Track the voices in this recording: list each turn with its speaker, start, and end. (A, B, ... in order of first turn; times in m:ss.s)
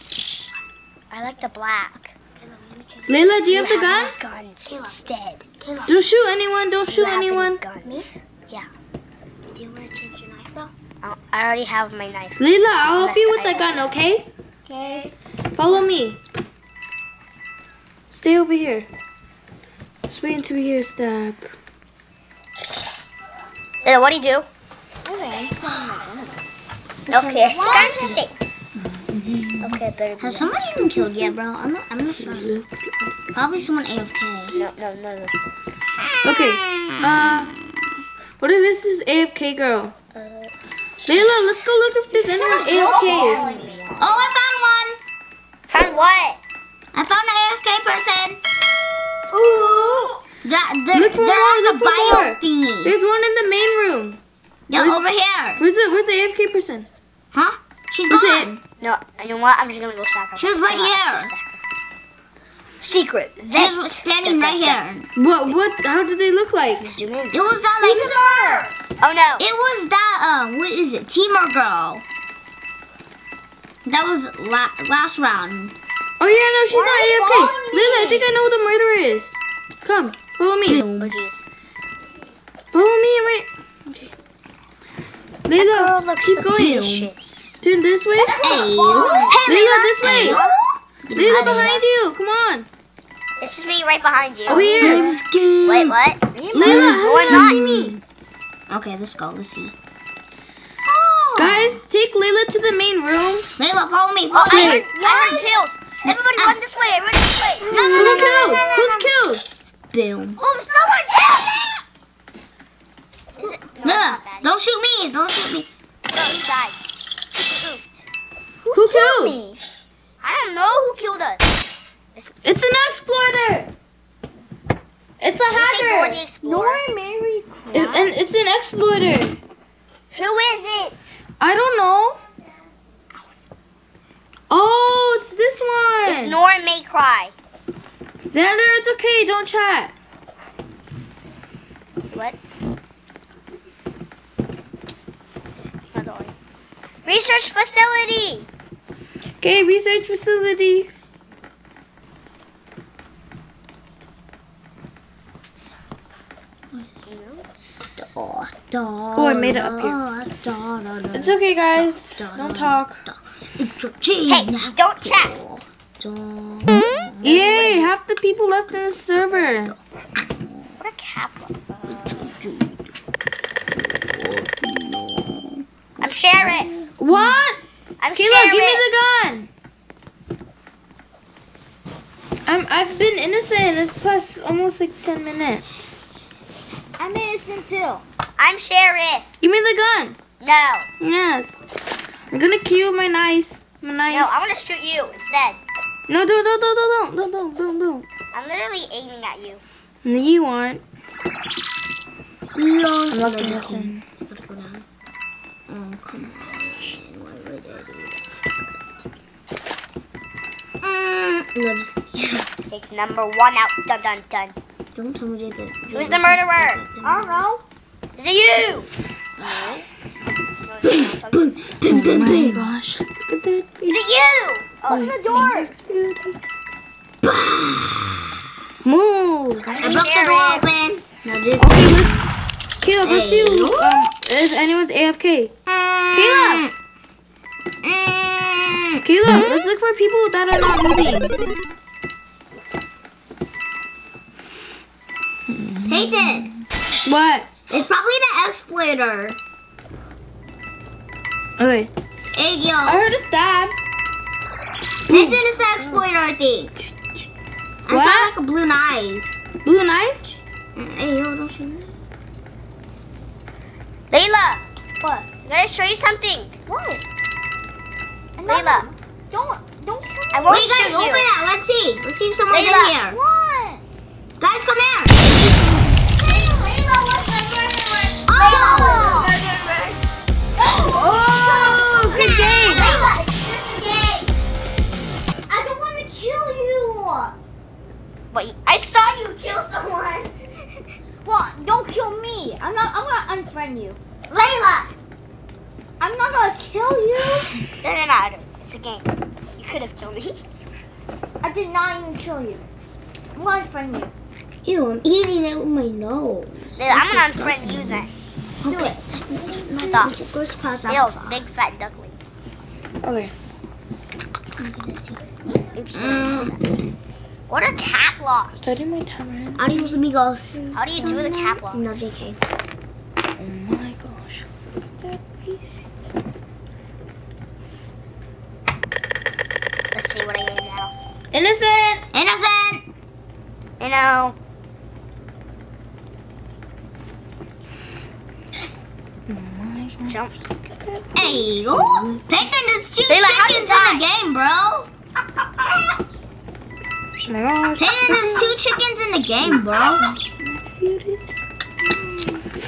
0:01.1-0:02.1 A
0:02.4-0:03.3 B
0:03.1-0:04.2 C
0:03.5-0:05.5 A
0:04.7-0:05.0 B
0:05.6-0:06.0 B
0:05.9-0:07.6 C
0:06.9-0:08.7 A
0:09.5-0:10.7 B
0:11.0-0:13.9 A
0:12.4-0:14.3 C
0:14.7-0:15.1 D
0:15.6-0:16.2 C
0:18.1-0:18.9 C
0:20.1-0:21.5 C
0:23.8-0:24.5 A
0:25.0-0:26.3 D
0:27.1-0:28.3 A
0:27.3-0:28.2 D
0:27.7-0:28.2 B
0:28.8-0:29.8 C
0:29.6-0:30.5 A
0:30.2-0:32.6 B
0:30.9-0:31.3 C
0:32.1-0:33.2 C
0:33.4-0:34.6 B
0:34.5-0:35.6 A
0:36.0-0:37.5 B
0:36.2-0:37.6 C
0:38.4-0:39.9 C
0:40.2-0:40.5 A
0:41.1-0:43.5 C
0:42.1-0:43.9 D
0:42.6-0:44.3 A
0:44.0-0:45.0 B
0:45.7-0:46.4 A
0:46.9-0:48.4 B
0:49.3-0:50.2 D
0:50.4-0:52.9 B
0:50.9-0:54.2 C
0:54.7-0:55.6 B
0:54.7-0:55.0 C
0:55.6-0:56.9 C
0:57.3-0:58.6 B
0:58.1-0:58.6 C
0:58.8-1:01.6 A
1:00.4-1:01.3 B
1:02.8-1:04.8 A
1:03.6-1:05.1 B
1:05.2-1:06.9 C
1:06.8-1:07.4 A
1:07.3-1:08.2 B
1:07.8-1:08.8 D
1:09.0-1:09.4 A
1:09.4-1:12.0 B
1:13.8-1:15.8 B
1:16.2-1:20.8 C
1:16.7-1:18.4 D
1:20.7-1:21.1 B
1:21.0-1:21.4 A
1:22.7-1:24.1 C
1:25.5-1:27.1 C
1:25.6-1:27.6 A
1:26.5-1:27.0 B
1:27.6-1:28.4 C
1:28.2-1:29.4 D
1:28.4-1:31.8 B
1:28.9-1:30.5 A
1:29.4-1:30.4 C
1:31.1-1:32.7 C
1:31.2-1:31.7 A
1:33.4-1:37.7 A
1:34.5-1:36.0 C
1:34.5-1:35.2 B
1:36.3-1:37.0 D
1:36.5-1:37.9 C
1:36.6-1:38.0 B
1:38.7-1:39.8 B
1:40.9-1:41.8 B
1:41.4-1:43.5 C
1:43.6-1:46.6 B
1:44.3-1:48.6 A
1:44.5-1:44.9 C
1:47.7-1:49.1 B
1:47.7-1:49.4 C
1:49.9-1:50.4 B
1:50.4-1:51.8 A
1:53.4-1:54.5 A
1:53.8-1:55.7 B
1:56.1-1:56.8 A
1:57.4-1:58.0 A
1:58.6-1:59.6 D
1:58.7-1:59.4 C
2:00.2-2:01.5 A
2:02.4-2:03.7 C
2:05.2-2:06.2 C
2:05.5-2:06.9 A
2:06.4-2:08.1 D
2:07.7-2:09.4 C
2:10.1-2:11.0 A
2:11.4-2:12.2 C
2:14.5-2:16.4 C
2:16.0-2:17.3 A
2:18.3-2:19.9 C
2:22.1-2:22.4 A
2:25.9-2:26.3 A
2:27.0-2:28.5 A
2:29.4-2:30.9 C
2:37.0-2:37.9 A
2:37.9-2:47.6 B
2:39.2-2:40.0 C
2:41.1-2:43.0 C
2:44.3-2:45.4 A
2:47.2-2:49.8 C
2:47.4-2:47.9 A
2:49.3-2:50.8 B
2:50.8-2:52.3 A
2:51.9-2:52.9 B
2:53.7-2:55.6 B
2:56.0-2:56.7 A
2:56.4-2:57.4 B
2:57.0-2:57.6 C
2:58.0-2:58.8 A
2:58.2-2:59.5 C
3:02.5-3:05.8 C
3:07.0-3:08.0 D
3:08.4-3:09.3 A
3:09.4-3:10.2 C
3:10.4-3:10.9 A
3:11.0-3:11.5 C
3:12.3-3:14.3 C
3:14.1-3:15.6 A
3:16.1-3:18.0 C
3:18.3-3:19.6 A
3:20.0-3:20.8 C
3:22.6-3:24.8 B
3:23.1-3:24.0 C
3:25.7-3:29.0 B
3:30.8-3:32.5 B
3:32.7-3:34.6 A
3:35.0-3:37.5 B
3:35.9-3:36.8 A
3:37.0-3:37.6 D
3:38.2-3:38.9 A
3:39.4-3:39.8 A
3:40.6-3:41.6 A
3:40.8-3:41.1 B
3:41.7-3:42.7 B
3:41.9-3:44.0 C
3:43.9-3:45.2 A
3:44.9-3:46.6 C
3:44.9-3:45.7 D
3:47.2-3:48.3 B
3:48.8-3:50.0 C
3:49.8-3:50.7 A
3:49.8-3:52.0 B
3:51.6-3:52.3 C
3:52.8-3:55.5 C
3:53.0-3:54.0 B
3:55.7-3:56.7 B
3:56.1-3:56.6 C
3:57.8-3:59.0 B
3:59.0-4:01.4 C
4:05.5-4:07.6 C
4:05.9-4:06.5 B
4:07.7-4:09.4 B
4:11.6-4:11.9 C
4:12.4-4:13.1 B
4:12.8-4:13.8 C
4:15.1-4:16.0 C
4:15.1-4:16.7 B
4:16.8-4:17.3 C
4:17.9-4:19.3 B
4:17.9-4:18.4 C
4:19.6-4:20.4 C
4:20.8-4:21.9 B
4:24.1-4:24.6 A
4:25.0-4:25.3 D
4:25.4-4:26.6 A
4:26.7-4:27.0 D
4:28.4-4:30.7 D
4:28.5-4:28.9 A
4:30.3-4:31.3 A
4:30.5-4:33.2 B
4:32.5-4:33.0 A
4:33.1-4:33.8 D
4:34.4-4:35.6 B
4:36.2-4:40.0 D
4:38.3-4:39.4 B
4:40.8-4:43.0 D
4:40.9-4:42.9 C
4:42.4-4:43.2 B
4:42.6-4:44.3 A
4:45.5-4:47.4 D
4:48.3-4:50.4 A
4:51.2-4:54.0 D
4:54.3-4:54.9 A
4:56.0-4:57.5 D
4:57.8-5:00.4 A
5:01.4-5:02.6 D
5:03.4-5:04.1 D
5:04.6-5:08.1 B
5:06.8-5:08.1 A
5:08.6-5:11.6 B
5:08.7-5:09.0 D
5:09.7-5:10.2 A
5:10.9-5:12.2 A
5:13.0-5:13.3 C
5:14.6-5:16.6 B
5:15.7-5:16.7 A
5:17.5-5:18.8 A
5:18.6-5:20.0 C
5:19.6-5:22.4 B
5:20.6-5:21.2 C
5:20.7-5:22.1 A
5:23.4-5:25.9 C
5:29.9-5:30.9 A
5:31.3-5:32.0 C
5:32.1-5:32.9 B
5:33.8-5:34.4 A
5:39.3-5:42.3 C
5:41.2-5:44.9 B
5:43.1-5:44.0 A
5:47.3-5:48.6 C
5:47.8-5:50.1 B
5:49.4-5:51.4 C